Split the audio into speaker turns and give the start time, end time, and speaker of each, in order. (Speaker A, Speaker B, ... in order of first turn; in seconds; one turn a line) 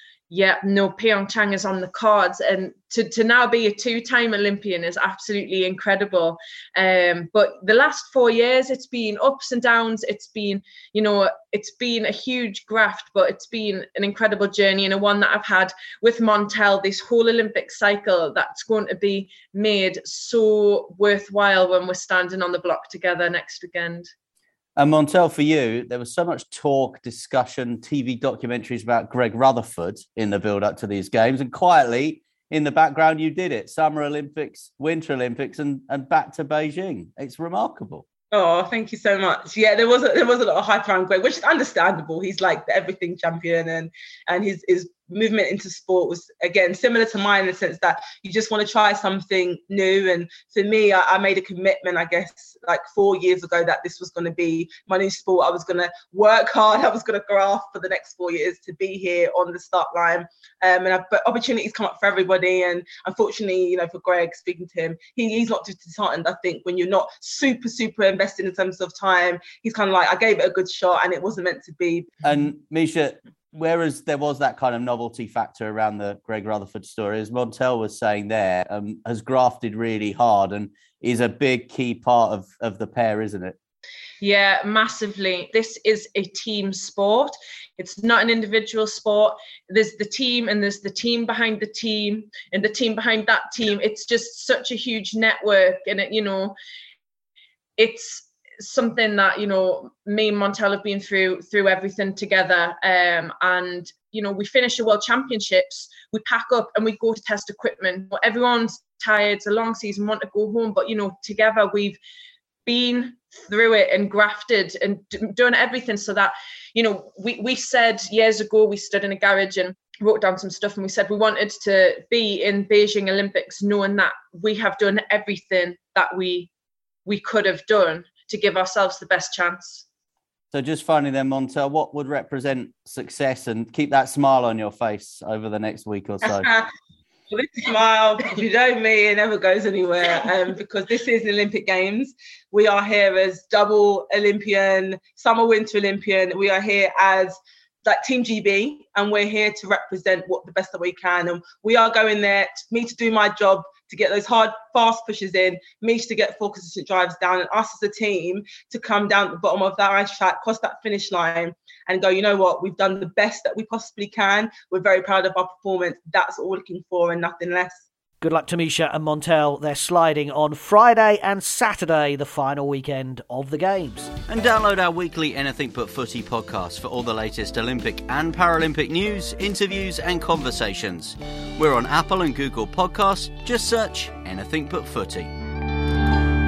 Speaker A: 0.3-24.1
Speaker B: 24.8-38.0
Speaker C: 38.3-72.2
Speaker B: 72.2-83.5
Speaker A: 84.2-96.5
Speaker A: 97.8-112.0
Speaker A: 112.7-126.5
Speaker A: 127.0-129.8
Speaker B: 130.5-136.4
Speaker C: 136.2-136.7
Speaker C: 137.3-167.8
Speaker D: 168.2-174.1
Speaker B: 174.3-185.3